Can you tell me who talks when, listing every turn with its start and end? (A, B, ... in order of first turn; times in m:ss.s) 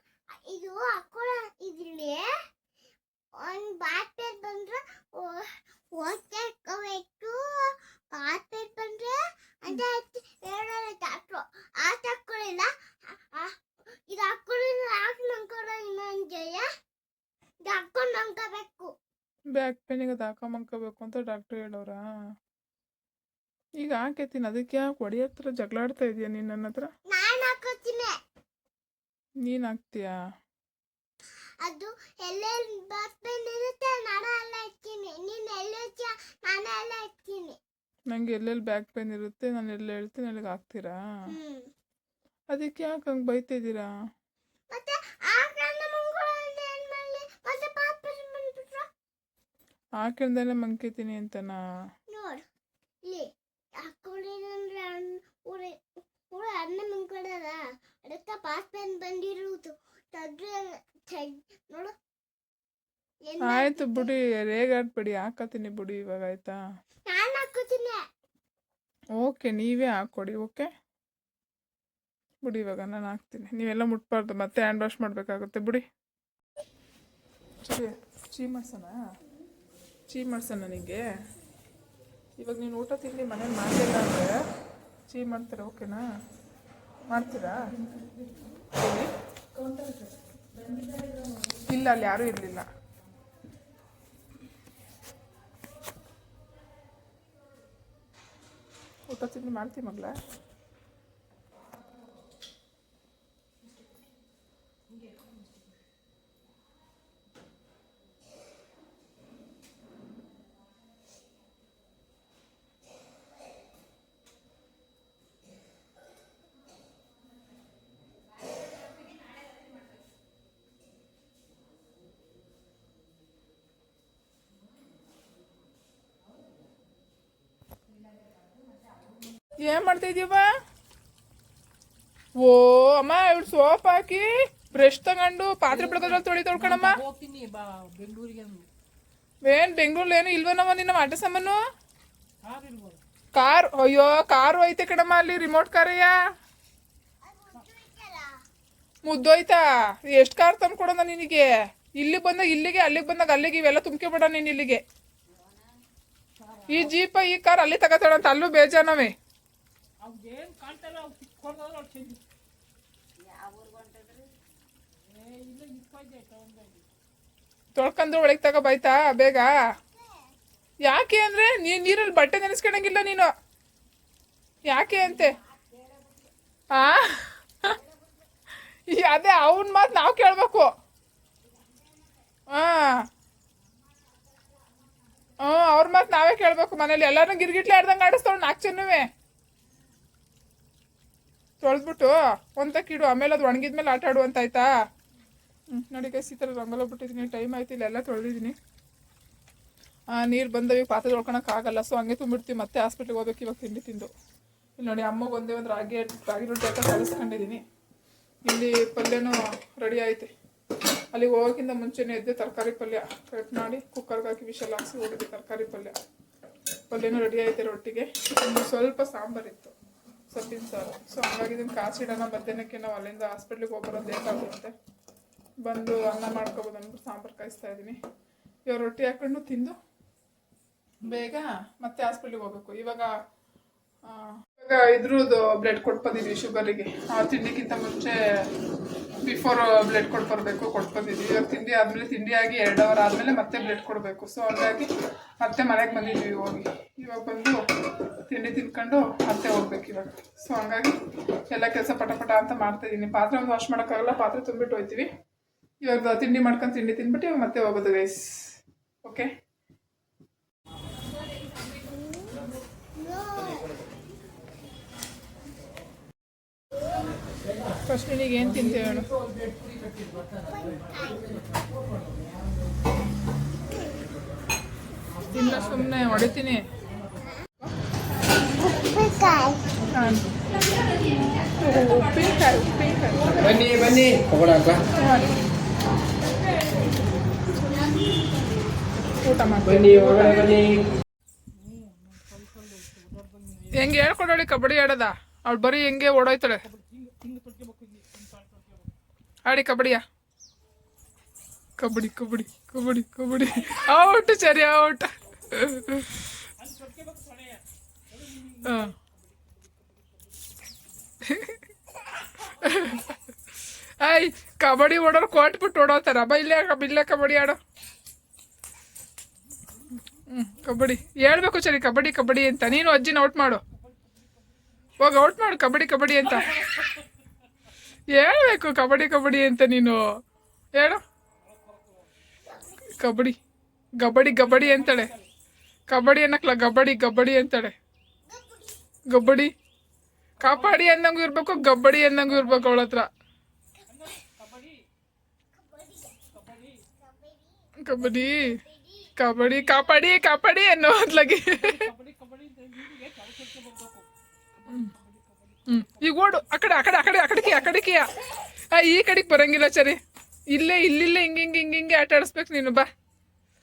0:00.4-0:02.2 A
0:03.4-0:13.5 A
0:14.1-0:16.6 A
0:17.6-0:18.9 A
0:19.5-0:22.0 B
0:23.8-0:26.9 B
0:27.1-0:28.1 A
0:29.4-0:30.1 B
0:31.6-0:37.6 A
0:38.1-0:41.0 B
0:41.3-0:41.7 A
0:42.5-0:43.9 B
0:44.7-0:48.9 A
0:50.0-0:51.6 B
0:52.1-0:52.4 A
0:53.8-0:55.7 A
0:56.3-1:01.9 A
1:03.3-1:04.1 A
1:03.4-1:06.6 B
1:07.1-1:08.0 A
1:09.2-1:10.7 B
1:12.4-1:15.8 B
1:17.6-1:19.0 B
1:20.1-1:21.0 B
1:22.4-1:24.3 B
1:25.1-1:26.0 B
1:27.1-1:27.6 B
1:28.7-1:29.1 B
1:31.7-1:32.6 B
1:39.1-1:40.2 B
2:09.6-2:10.5 B
2:12.4-2:17.0 B
2:15.7-2:18.7 C
2:19.4-2:21.6 B
2:22.4-2:23.0 C
2:23.3-2:26.1 B
2:27.2-2:28.3 A
2:29.0-2:34.8 B
2:36.4-2:36.9 C
2:36.7-2:39.1 B
2:40.0-2:42.2 C
2:43.3-2:44.2 D
2:45.1-2:46.8 C
2:47.7-2:49.5 B
2:50.8-2:53.3 B
2:54.6-2:55.4 B
2:56.7-2:57.3 B
2:58.9-3:00.7 B
3:02.5-3:03.1 B
3:05.4-3:09.1 B
3:11.6-3:14.7 B
3:15.7-3:18.6 B
3:20.1-3:24.1 B
3:24.8-3:27.6 B
3:28.4-3:30.3 B
3:31.1-3:36.0 B
3:36.9-3:39.7 B
3:40.3-3:44.7 B
3:45.6-3:48.0 B
3:48.7-3:49.8 B
3:51.0-3:53.1 B
3:54.0-3:58.1 B
3:59.2-4:11.0 B
4:11.5-4:15.1 B
4:15.8-4:18.5 B
4:19.0-4:19.3 B
4:21.8-4:22.4 A
4:23.0-4:23.8 A
4:27.9-4:29.1 B
4:30.4-4:31.6 A
4:35.3-4:36.6 B
4:38.6-4:39.8 A
4:39.9-4:40.4 B
4:41.6-4:43.6 B
4:43.7-4:44.8 D
4:44.9-4:45.4 B
4:49.2-4:50.6 B
4:51.6-4:53.9 C
4:53.7-4:56.6 B
4:56.6-4:58.9 C
4:59.4-5:00.0 B
5:01.8-5:06.1 B
5:06.6-5:10.5 C
5:08.6-5:08.9 B
5:11.2-5:11.6 B
5:12.5-5:13.2 B
5:14.0-5:17.6 B
5:20.3-5:23.6 B
5:23.8-5:24.3 C
5:25.0-5:26.7 B
5:26.5-5:26.8 C
5:28.1-5:30.0 B
5:30.8-5:31.0 B
5:31.4-5:32.1 C
5:32.5-5:32.8 A
5:33.0-5:33.4 B
5:34.0-5:35.1 B
5:34.4-5:35.3 C
5:35.9-5:37.7 B
5:38.2-5:38.8 A
5:39.1-5:39.5 B
5:40.4-5:40.9 C
5:40.4-5:43.1 B
5:42.1-5:42.9 C
5:43.9-5:44.8 C
5:45.5-5:46.3 A
5:46.3-5:46.8 C
5:47.0-5:50.0 A
5:47.8-5:48.6 B
5:49.2-5:51.8 B
5:51.5-5:56.3 C
5:55.7-5:58.1 B
5:58.7-6:00.0 B
6:00.5-6:02.8 B